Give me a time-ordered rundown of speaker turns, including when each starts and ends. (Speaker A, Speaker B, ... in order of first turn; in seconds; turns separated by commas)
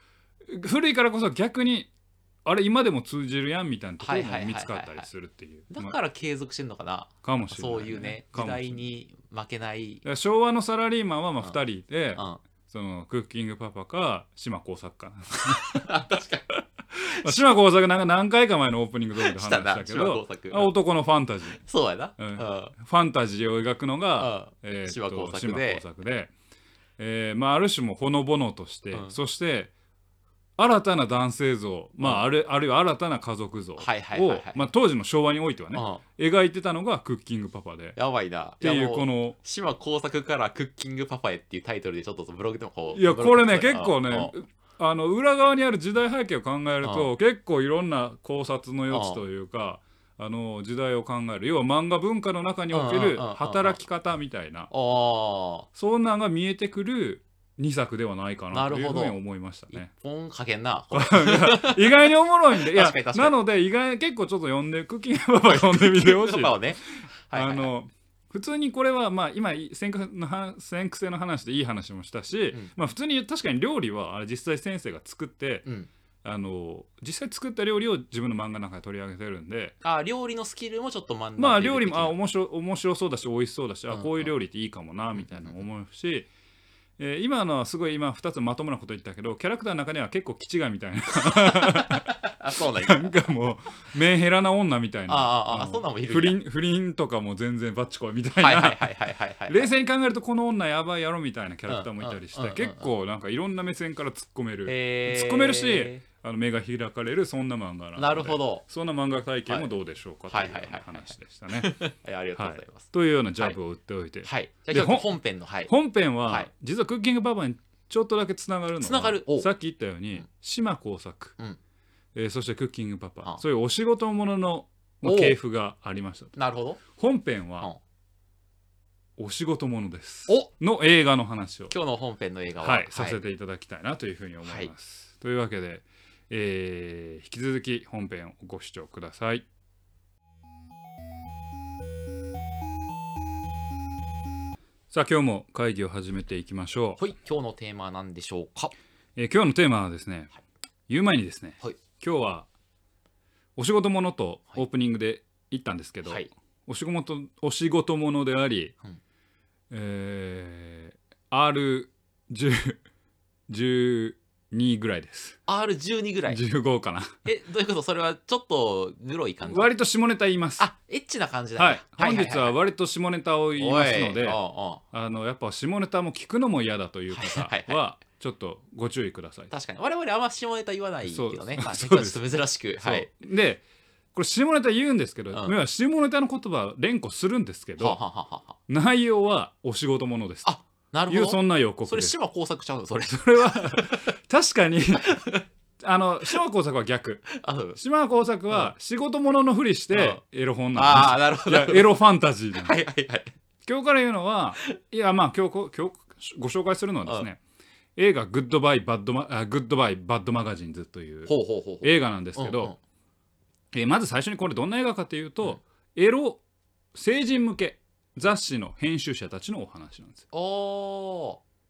Speaker A: 0.4-1.9, Speaker A: 2.4-6.0, Speaker B: 4.0-5.1, Speaker B: 5.7-10.0, Speaker A: 7.2-8.8, Speaker A: 10.0-15.9, Speaker B: 12.1-12.4, Speaker B: 15.5-16.5, Speaker A: 16.9-21.6, Speaker B: 17.1-17.5, Speaker B: 19.1-20.7, Speaker B: 21.6-22.7, Speaker A: 22.2-26.3, Speaker B: 24.2-25.8, Speaker A: 27.0-29.7, Speaker A: 30.6-38.0, Speaker B: 32.0-32.2, Speaker B: 33.8-34.7, Speaker B: 35.7-36.0, Speaker B: 38.0-44.3, Speaker A: 38.6-39.4, Speaker A: 42.9-54.7, Speaker B: 46.8-47.1, Speaker B: 48.9-49.2, Speaker B: 52.7-53.8, Speaker B: 54.7-55.7, Speaker A: 55.7-59.9, Speaker B: 58.5-59.2, Speaker B: 59.7-63.3, Speaker A: 60.9-75.7, Speaker B: 65.4-67.7, Speaker A: 76.2-79.8, Speaker B: 79.8-82.1, Speaker A: 81.4-86.3, Speaker B: 83.9-84.3, Speaker B: 85.1-85.6, Speaker A: 87.0-98.9, Speaker B: 91.3-93.3, Speaker B: 95.1-96.4, Speaker B: 98.3-99.7, Speaker A: 99.5-115.1, Speaker B: 101.7-102.9, Speaker B: 104.7-106.0, Speaker B: 108.0-108.6, Speaker B: 110.3-113.5, Speaker B: 114.2-115.7, Speaker A: 115.7-121.3, Speaker B: 116.2-116.5, Speaker B: 118.8-119.5, Speaker A: 122.1-126.3, Speaker B: 125.0-125.4, Speaker B: 126.3-126.8, Speaker A: 126.8-127.7, Speaker A: 129.2-131.7, Speaker B: 131.7-133.2, Speaker A: 132.6-139.4, Speaker B: 134.4-134.7, Speaker A: 144.9-147.1, Speaker B: 147.0-148.7, Speaker A: 149.2-150.3, Speaker A: 150.9-152.5, Speaker A: 153.6-158.7, Speaker B: 156.0-156.3, Speaker A: 159.7-162.8, Speaker A: 163.5-165.4, Speaker B: 165.5-166.4, Speaker A: 166.3-167.2, Speaker B: 167.2-169.7, Speaker A: 169.4-170.6, Speaker B: 170.6-172.6, Speaker A: 171.6-174.4, Speaker B: 173.6-174.8, Speaker A: 174.9-179.5, Speaker B: 177.1-177.8, Speaker B: 179.5-183.1, Speaker A: 181.1-183.6, Speaker A: 184.1-188.0, Speaker B: 187.8-188.6, Speaker A: 188.7-190.5, Speaker B: 190.4-194.2, Speaker A: 191.1-192.1, Speaker A: 193.0-195.2, Speaker B: 194.9-195.4, Speaker A: 195.8-202.8, Speaker B: 197.3-197.8, Speaker B: 199.9-200.2, Speaker B: 200.7-201.9, Speaker B: 202.5-203.3, Speaker A: 203.6-207.4, Speaker A: 207.9-212.7, Speaker B: 211.2-212.8, Speaker A: 213.7-216.4, Speaker A: 216.9-220.2, Speaker B: 220.3-221.4